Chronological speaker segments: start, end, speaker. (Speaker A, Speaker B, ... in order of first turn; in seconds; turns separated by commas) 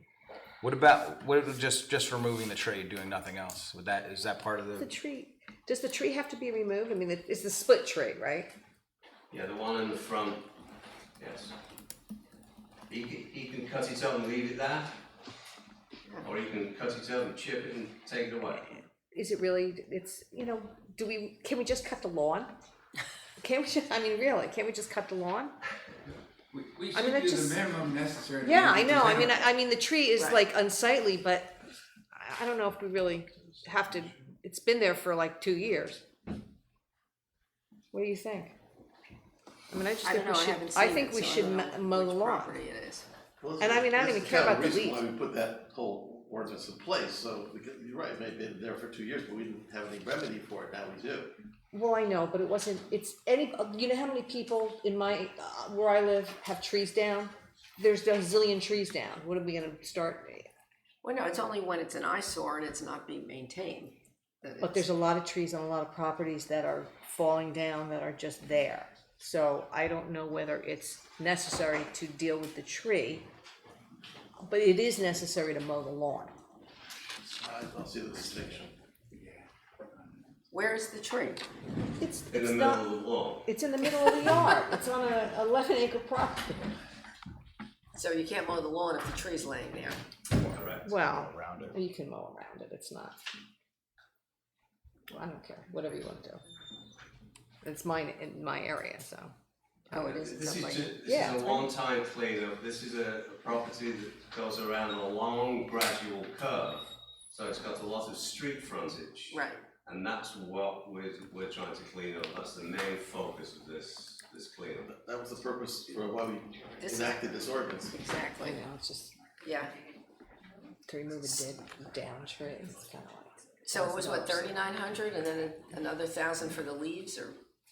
Speaker A: 0.6-4.9, Speaker B: 4.8-8.5, Speaker C: 9.3-10.5, Speaker C: 11.2-11.6, Speaker C: 12.9-14.9, Speaker C: 16.2-18.7, Speaker B: 19.1-22.5, Speaker B: 23.4-25.5, Speaker D: 26.5-29.5, Speaker B: 26.9-27.6, Speaker B: 28.4-31.6, Speaker B: 32.1-36.0, Speaker B: 37.9-38.5, Speaker B: 39.7-42.6, Speaker E: 40.0-43.1, Speaker F: 43.4-51.3, Speaker B: 43.6-45.1, Speaker B: 51.7-60.5, Speaker E: 61.0-64.9, Speaker B: 64.6-73.3, Speaker B: 74.5-76.3, Speaker F: 77.2-78.7, Speaker D: 79.1-80.3, Speaker E: 80.5-81.4, Speaker B: 82.0-82.9, Speaker C: 82.3-83.5, Speaker B: 83.5-86.7, Speaker E: 88.0-90.0, Speaker A: 90.4-91.8, Speaker C: 90.4-90.9, Speaker B: 90.8-93.2, Speaker B: 95.1-96.4, Speaker B: 97.6-99.3, Speaker B: 99.9-101.7, Speaker C: 99.9-114.9, Speaker E: 100.0-100.9, Speaker E: 109.3-109.6, Speaker F: 114.9-118.0, Speaker E: 116.8-118.6, Speaker B: 118.4-119.1, Speaker E: 119.4-119.8, Speaker B: 120.9-124.5, Speaker E: 123.7-127.4